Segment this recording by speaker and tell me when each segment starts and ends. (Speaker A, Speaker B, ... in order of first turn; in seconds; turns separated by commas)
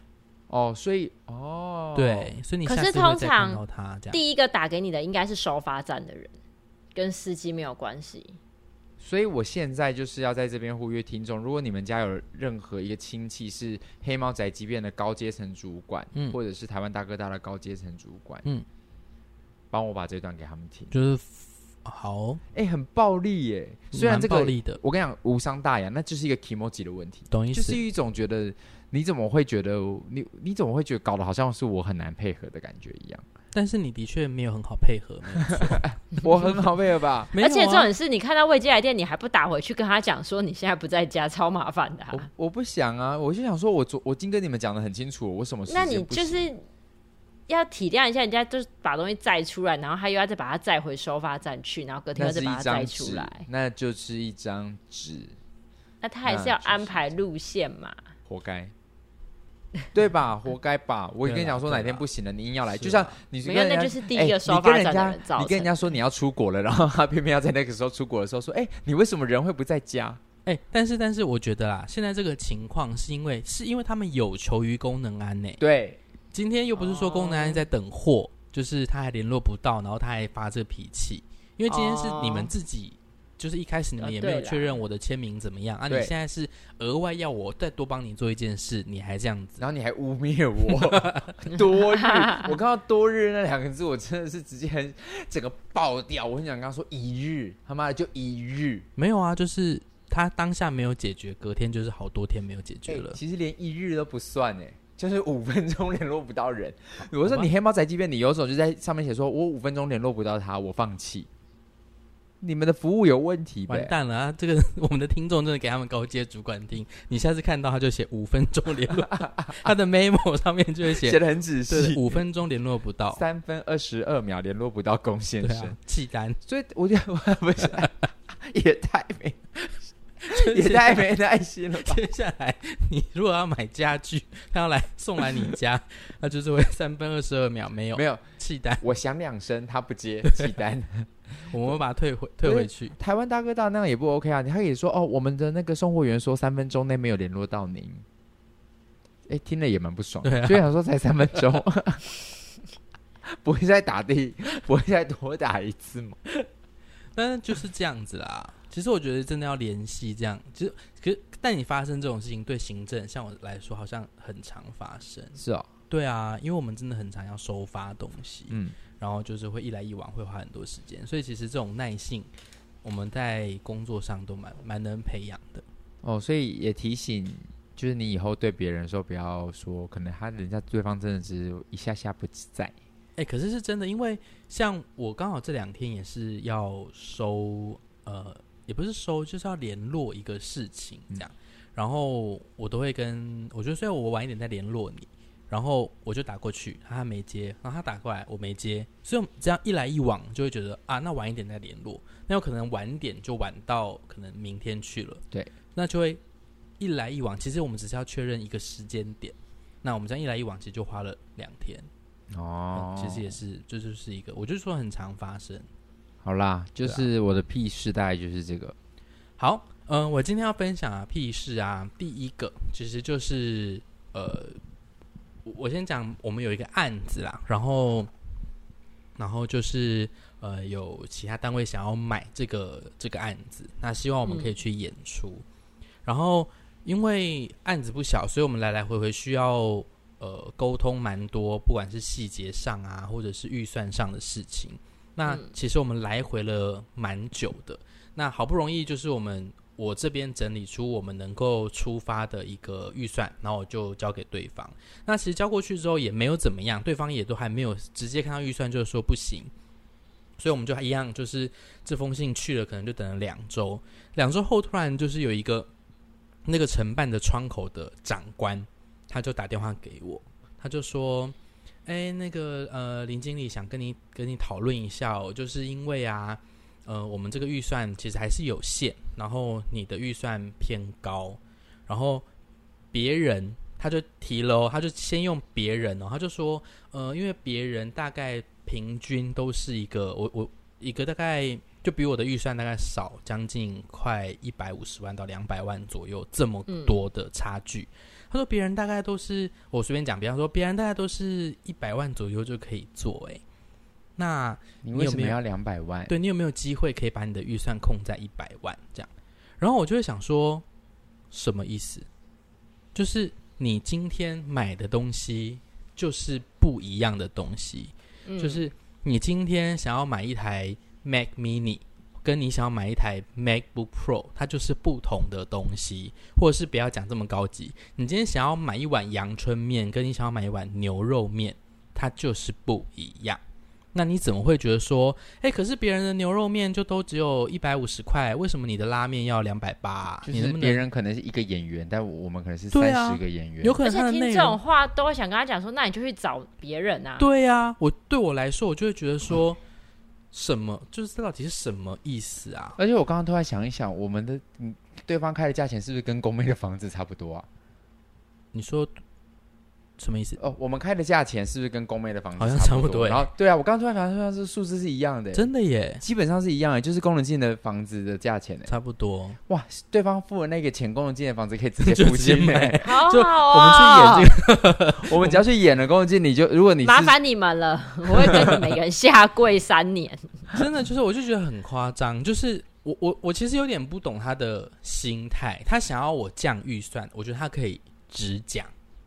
Speaker A: 0.5-2.3, Speaker B: 1.9-4.2, Speaker C: 2.6-6.3, Speaker C: 7.0-8.4, Speaker A: 9.0-18.4, Speaker A: 19.7-20.9, Speaker B: 20.9-22.4, Speaker A: 22.5-33.2, Speaker B: 23.9-24.8, Speaker B: 27.3-27.8, Speaker B: 33.5-36.0, Speaker A: 35.4-37.3, Speaker B: 37.3-37.9, Speaker C: 37.4-42.3, Speaker A: 42.1-46.5, Speaker C: 45.7-46.6, Speaker C: 47.5-53.5, Speaker A: 52.2-55.4, Speaker C: 56.0-58.0, Speaker A: 56.3-57.0, Speaker A: 58.3-58.7, Speaker A: 59.9-70.2, Speaker B: 61.2-62.0, Speaker B: 62.8-63.1, Speaker C: 63.4-65.8, Speaker B: 70.5-75.6, Speaker A: 75.6-76.0, Speaker B: 76.3-89.7, Speaker C: 76.8-77.7, Speaker C: 81.7-82.5, Speaker C: 84.0-84.8, Speaker A: 89.6-98.9, Speaker B: 90.8-91.2, Speaker C: 92.2-92.5, Speaker B: 99.0-103.2, Speaker A: 102.9-111.3, Speaker B: 107.2-107.5, Speaker A: 112.4-113.9, Speaker B: 113.7-123.2, Speaker A: 118.9-119.7, Speaker A: 120.9-122.2, Speaker A: 123.1-125.8, Speaker B: 125.4-126.4, Speaker A: 126.5-129.7, Speaker B: 130.2-131.1, Speaker A: 130.3-132.0, Speaker B: 131.8-138.8, Speaker A: 137.9-138.3, Speaker A: 138.8-141.1, Speaker B: 141.5-143.0, Speaker A: 142.4-148.0, Speaker A: 149.3-152.1, Speaker B: 150.2-150.6, Speaker A: 153.4-156.2, Speaker B: 157.2-165.4, Speaker A: 165.4-165.7, Speaker B: 165.9-172.3, Speaker A: 168.5-168.8, Speaker B: 172.8-175.7, Speaker A: 176.0-182.7, Speaker B: 183.2-205.2, Speaker B: 205.8-206.2, Speaker B: 206.8-211.9, Speaker A: 212.3-213.4, Speaker B: 212.8-215.7, Speaker A: 216.2-218.8, Speaker B: 219.4-224.6, Speaker B: 225.4-228.1, Speaker B: 229.2-235.4, Speaker C: 234.2-234.5, Speaker B: 236.1-259.5, Speaker C: 245.3-245.5, Speaker B: 260.4-265.7, Speaker B: 266.5-271.4, Speaker B: 271.9-282.2, Speaker B: 282.9-303.4, Speaker C: 296.7-297.0, Speaker B: 304.2-305.4, Speaker A: 304.8-306.1, Speaker B: 306.1-309.1, Speaker B: 309.6-310.6, Speaker B: 311.3-312.1, Speaker B: 312.9-333.4, Speaker C: 318.3-318.7, Speaker B: 333.9-340.8, Speaker A: 340.2-343.8, Speaker B: 342.7-344.6, Speaker C: 343.8-347.3, Speaker B: 347.2-349.6, Speaker B: 350.3-352.8, Speaker A: 352.8-357.5, Speaker B: 358.5-358.9, Speaker B: 360.0-360.4, Speaker A: 360.4-365.5, Speaker B: 362.4-363.3, Speaker B: 365.3-366.0, Speaker A: 366.0-368.7, Speaker B: 368.7-369.4, Speaker A: 369.5-372.8, Speaker B: 371.8-375.4, Speaker C: 372.8-374.3, Speaker A: 375.0-377.1, Speaker C: 376.8-380.3, Speaker B: 380.5-388.7